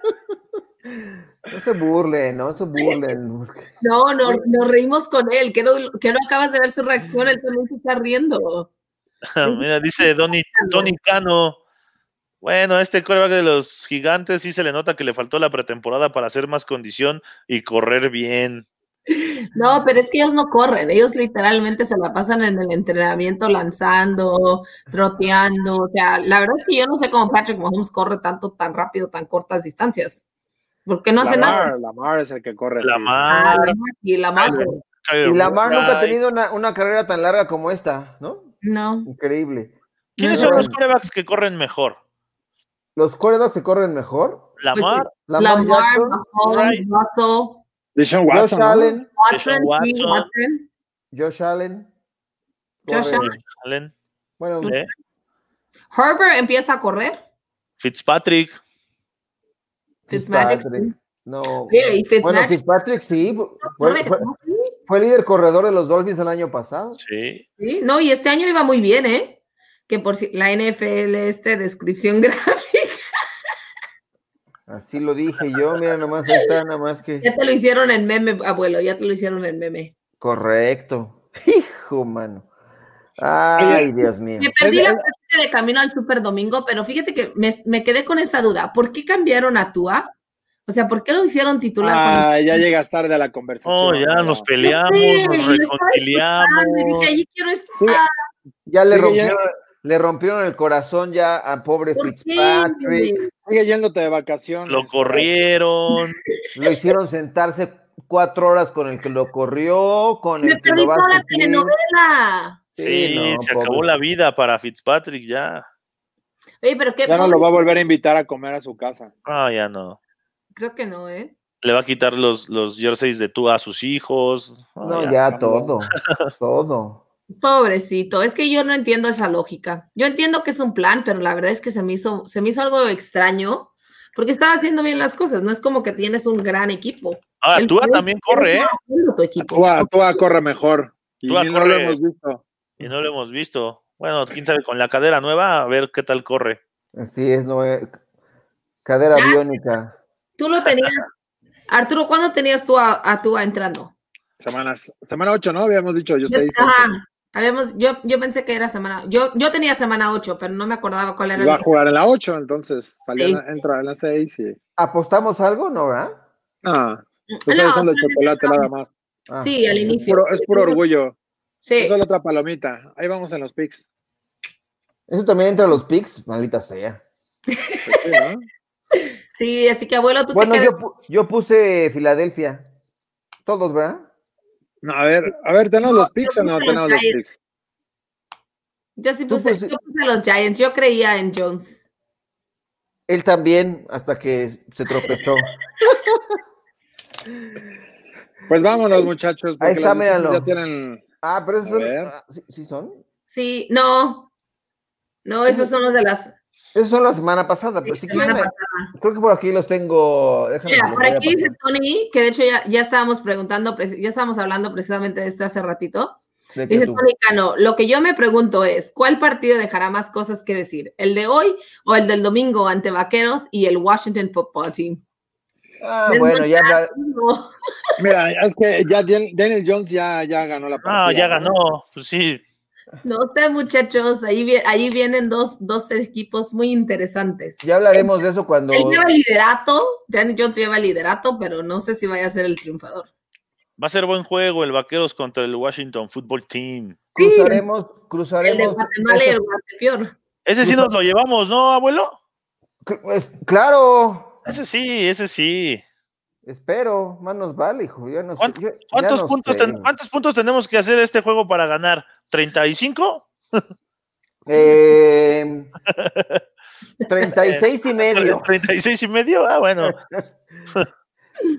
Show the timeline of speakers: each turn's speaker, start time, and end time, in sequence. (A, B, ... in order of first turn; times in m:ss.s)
0:01.0-0:03.7 A
0:03.8-0:08.7 B
0:09.3-0:11.6 C
0:09.4-0:10.9 B
0:12.4-0:18.7 C
0:19.1-0:30.2 B
0:30.8-0:31.7 B
0:31.2-0:33.2 D
0:32.8-0:33.8 C
0:33.3-0:34.8 B
0:34.4-0:36.2 C
0:35.2-0:38.5 A
0:38.6-0:39.1 B
0:39.0-0:39.7 A
0:40.2-0:40.7 B
0:40.2-0:42.0 C
0:40.3-0:40.8 A
0:43.0-0:44.5 A
0:44.6-0:45.1 C
0:44.7-0:47.6 B
0:45.2-0:46.2 A
0:46.4-0:46.8 C
0:48.0-0:49.0 D
0:48.3-0:49.0 A
0:49.2-0:50.7 B
0:49.3-0:50.3 C
0:51.1-0:51.9 A
0:52.8-0:53.4 A
0:52.9-0:53.4 B
0:53.0-0:53.9 C
0:54.4-0:54.8 A
0:54.6-0:54.9 C
0:55.9-0:57.2 B
0:57.8-0:58.6 C
1:00.1-1:04.2 A
1:00.1-1:00.9 B
1:01.7-1:02.6 B
1:03.6-1:04.7 B
1:04.9-1:07.0 A
1:07.0-1:07.4 C
1:07.6-1:13.0 B
1:14.7-1:17.3 A
1:17.2-1:19.9 B
1:20.2-1:22.5 A
1:23.2-1:24.6 A
1:23.6-1:23.9 D
1:24.4-1:30.1 B
1:24.6-1:25.0 D
1:30.6-1:32.6 B
1:31.8-1:34.4 D
1:33.6-1:37.1 C
1:34.6-1:38.1 B
1:37.8-1:38.0 D
1:38.7-1:43.1 A
1:38.9-1:39.4 D
1:42.0-1:43.3 B
1:43.4-1:45.3 D
1:44.7-1:46.2 C
1:46.5-1:51.7 A
1:50.4-1:52.6 B
1:52.7-1:53.9 A
1:52.8-1:55.6 C
1:56.6-1:57.4 B
1:57.0-1:59.1 D
1:59.2-2:00.0 C
2:00.5-2:01.3 B
2:01.6-2:05.2 C
2:04.8-2:07.0 A
2:05.3-2:05.7 D
2:07.4-2:19.9 B
2:17.4-2:18.7 C
2:19.5-2:22.4 D
2:21.2-2:22.0 C
2:22.8-2:26.6 C
2:26.9-2:28.0 A
2:28.8-2:30.0 A
2:29.1-2:29.4 B
2:30.4-2:31.1 B
2:31.7-2:33.9 B
2:34.4-2:36.9 D
2:36.3-2:41.6 B
2:41.4-2:44.6 D
2:44.8-2:46.2 A
2:46.6-2:48.9 D
2:47.3-2:48.7 B
2:49.3-2:50.1 A
2:49.4-2:50.8 B
2:49.8-2:51.1 D
2:51.6-2:51.9 B
2:51.8-2:53.8 D
2:55.1-2:57.0 A
2:57.5-2:58.1 B
2:57.8-2:58.4 D
2:59.3-3:00.7 B
3:00.3-3:02.7 A
3:03.4-3:04.1 A
3:04.8-3:07.4 D
3:05.8-3:07.2 B
3:09.0-3:11.8 B
3:09.3-3:09.7 A
3:13.1-3:16.2 A
3:18.5-3:21.0 D
3:19.6-3:20.5 A
3:21.2-3:23.0 A
3:21.6-3:22.1 D
3:23.3-3:24.3 B
3:25.2-3:26.3 B
3:26.7-3:31.5 A
3:27.8-3:28.9 B
3:30.7-3:45.0 B
3:36.5-3:37.0 A
3:45.8-3:46.9 A
3:46.1-3:47.5 B
3:48.0-3:51.5 D
3:50.8-3:52.4 C
3:53.0-3:58.1 B
3:57.6-3:59.1 A
3:58.7-4:03.1 B
4:03.8-4:07.0 C
4:07.1-4:09.4 A
4:07.2-4:07.6 B
4:08.4-4:10.1 B
4:10.4-4:12.2 C
4:12.8-4:14.4 A
4:14.4-4:15.8 C
4:16.4-4:19.9 A
4:18.4-4:23.6 C
4:24.5-4:25.7 A
4:25.9-4:26.4 C
4:27.1-4:28.4 A
4:27.4-4:30.0 C
4:29.8-4:30.2 A